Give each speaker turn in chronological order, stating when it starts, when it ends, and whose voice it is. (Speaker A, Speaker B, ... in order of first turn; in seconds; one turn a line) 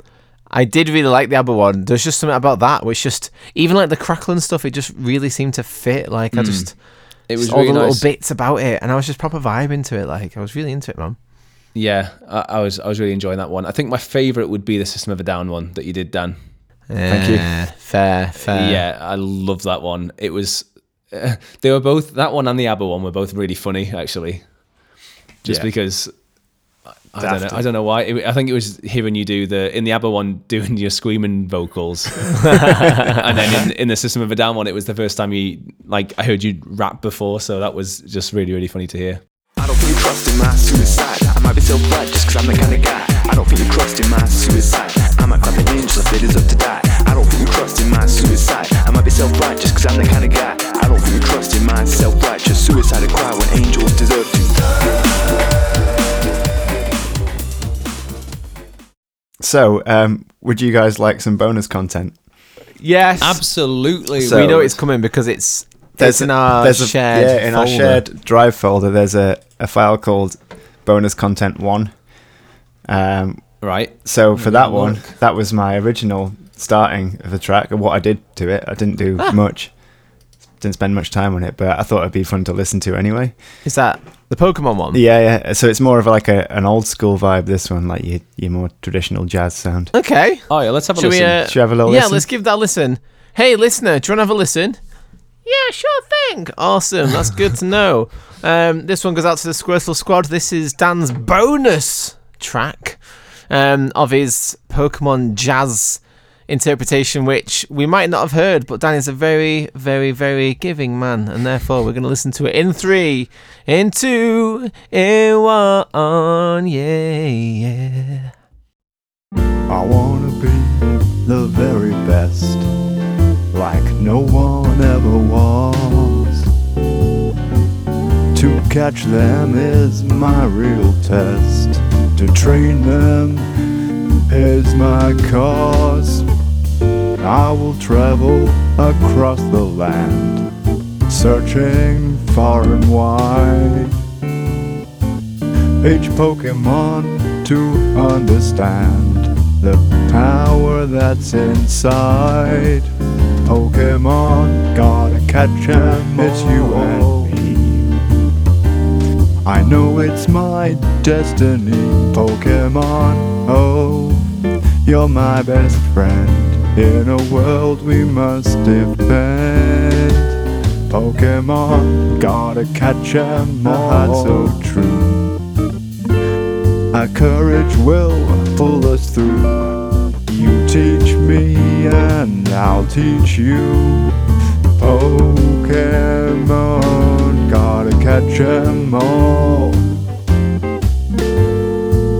Speaker A: 0.5-6.7
Speaker B: 6.3-6.7
Speaker B: 7.3-8.0
Speaker A: 7.4-11.2
Speaker B: 11.7-16.4
Speaker A: 16.9-18.8
Speaker C: 17.1-17.5
Speaker B: 18.4-24.4
Speaker B: 25.4-26.1
Speaker B: 27.1-39.2
Speaker C: 27.2-27.6
Speaker A: 32.5-33.0
Speaker D: 39.6-54.5
Speaker C: 59.4-62.1
Speaker A: 62.8-63.4
Speaker B: 63.2-64.8
Speaker A: 64.2-68.0
Speaker C: 64.2-64.5
Speaker C: 66.0-71.9
Speaker C: 72.9-73.4
Speaker B: 73.6-75.1
Speaker C: 74.0-79.7
Speaker C: 80.6-83.3
Speaker A: 83.6-85.0
Speaker C: 84.9-89.9
Speaker A: 89.9-94.8
Speaker B: 90.5-91.4
Speaker C: 91.5-92.2
Speaker A: 95.4-118.3
Speaker E: 119.7-122.7
Speaker E: 123.5-126.5
Speaker E: 128.3-133.5
Speaker E: 134.3-136.2
Speaker E: 137.2-140.5
Speaker E: 141.1-143.9
Speaker E: 145.8-152.9
Speaker E: 153.4-157.9
Speaker E: 159.4-164.3
Speaker E: 164.8-170.3
Speaker E: 170.9-175.3
Speaker E: 176.9-184.1
Speaker E: 184.8-189.8